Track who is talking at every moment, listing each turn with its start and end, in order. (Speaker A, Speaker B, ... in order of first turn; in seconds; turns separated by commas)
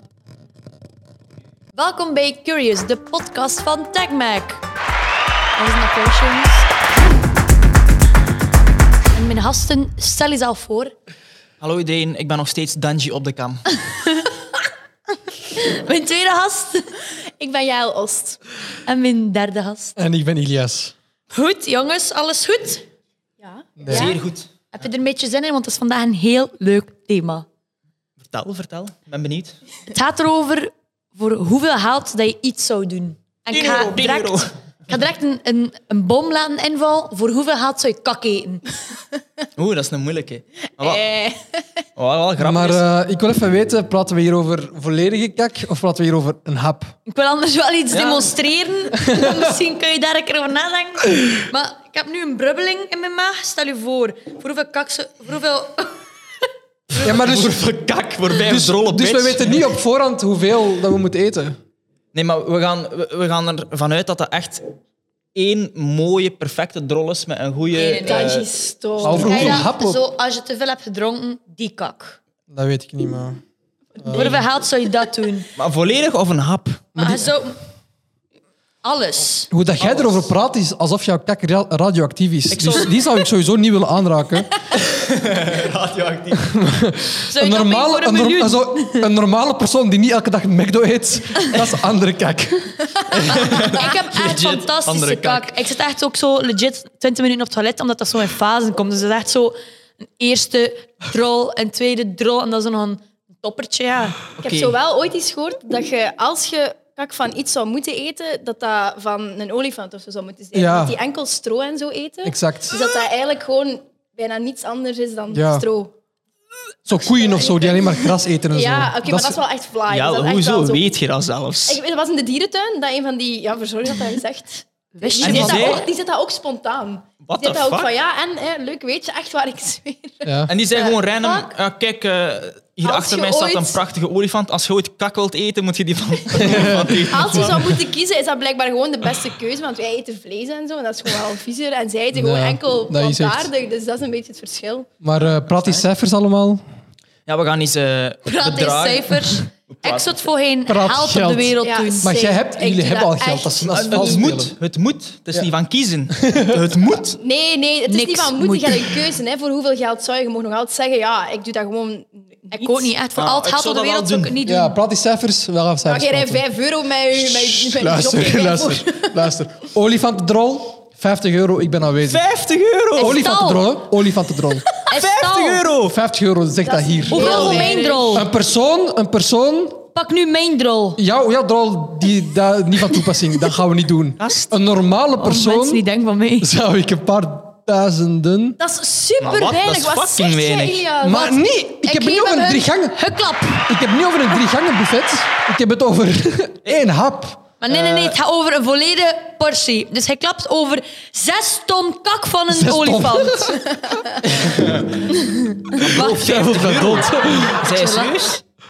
Speaker A: 1.8-4.6, Speaker A: 5.6-6.7, Speaker A: 9.1-10.9, Speaker B: 11.6-13.7, Speaker A: 13.9-14.3, Speaker A: 15.5-16.9, Speaker C: 17.4-18.4, Speaker A: 18.9-20.0, Speaker D: 20.0-20.9, Speaker A: 21.3-22.9, Speaker C: 23.4-24.2, Speaker D: 23.8-24.1, Speaker B: 23.9-24.5, Speaker A: 24.7-27.5, Speaker B: 28.2-29.6, Speaker A: 29.9-38.6, Speaker B: 33.5-34.5, Speaker B: 39.6-41.0, Speaker C: 40.8-41.8, Speaker B: 42.0-42.8, Speaker D: 42.4-47.0, Speaker A: 47.1-55.9, Speaker B: 47.9-48.3, Speaker D: 49.1-49.6, Speaker B: 57.0-59.6, Speaker D: 57.0-57.7, Speaker D: 58.4-61.6, Speaker B: 62.1-64.7, Speaker B: 65.3-69.5, Speaker A: 67.7-68.3, Speaker C: 68.0-69.7, Speaker D: 69.0-70.0, Speaker A: 69.1-72.2, Speaker D: 72.5-73.4, Speaker D: 74.0-74.4, Speaker C: 74.0-74.3, Speaker A: 74.1-75.5, Speaker B: 75.6-76.8, Speaker D: 77.0-77.3, Speaker A: 77.0-77.6, Speaker A: 78.8-79.5, Speaker D: 79.5-84.5, Speaker B: 79.8-80.3, Speaker B: 82.5-83.0, Speaker B: 84.8-86.5, Speaker D: 86.3-93.6, Speaker A: 87.3-89.1, Speaker B: 93.3-95.6, Speaker A: 93.6-99.6, Speaker A: 100.2-104.2, Speaker C: 104.4-115.9, Speaker B: 104.4-104.8, Speaker D: 110.5-111.0, Speaker D: 112.2-112.8, Speaker D: 115.3-115.7, Speaker D: 116.9-119.4, Speaker C: 117.2-120.9, Speaker B: 119.9-121.8, Speaker C: 121.7-131.4, Speaker A: 124.9-125.9, Speaker B: 125.2-125.8, Speaker B: 127.2-127.9, Speaker D: 130.2-130.5, Speaker B: 130.5-137.7, Speaker C: 132.8-133.8, Speaker D: 136.4-137.7, Speaker C: 136.4-144.9, Speaker D: 142.1-143.5, Speaker D: 145.0-146.6, Speaker B: 145.2-145.8, Speaker B: 147.3-150.3, Speaker A: 148.2-152.2, Speaker D: 150.7-154.6, Speaker C: 151.6-154.3, Speaker B: 153.7-157.2, Speaker D: 156.1-156.6, Speaker C: 157.1-162.9, Speaker A: 157.9-159.0, Speaker A: 162.5-164.8, Speaker B: 163.2-164.4, Speaker D: 164.5-166.4, Speaker C: 165.9-169.2, Speaker D: 167.1-172.2, Speaker B: 172.1-173.2, Speaker D: 172.9-174.7, Speaker A: 173.0-173.8, Speaker A: 174.9-175.6, Speaker B: 174.9-175.9, Speaker D: 175.8-179.8, Speaker C: 176.6-178.2, Speaker A: 177.1-178.3, Speaker B: 177.2-177.7, Speaker A: 179.9-181.0, Speaker D: 181.0-185.8, Speaker B: 184.2-184.5, Speaker A: 185.2-186.5, Speaker D: 186.4-188.6, Speaker C: 188.6-191.3, Speaker B: 189.2-190.9, Speaker D: 191.0-193.0, Speaker A: 191.1-193.7, Speaker C: 192.3-192.6, Speaker D: 193.7-197.4, Speaker A: 197.6-203.6, Speaker B: 197.7-198.1, Speaker D: 202.5-203.6, Speaker B: 204.3-205.2, Speaker A: 205.1-206.4, Speaker B: 205.7-208.4, Speaker D: 205.8-207.7, Speaker A: 207.6-208.3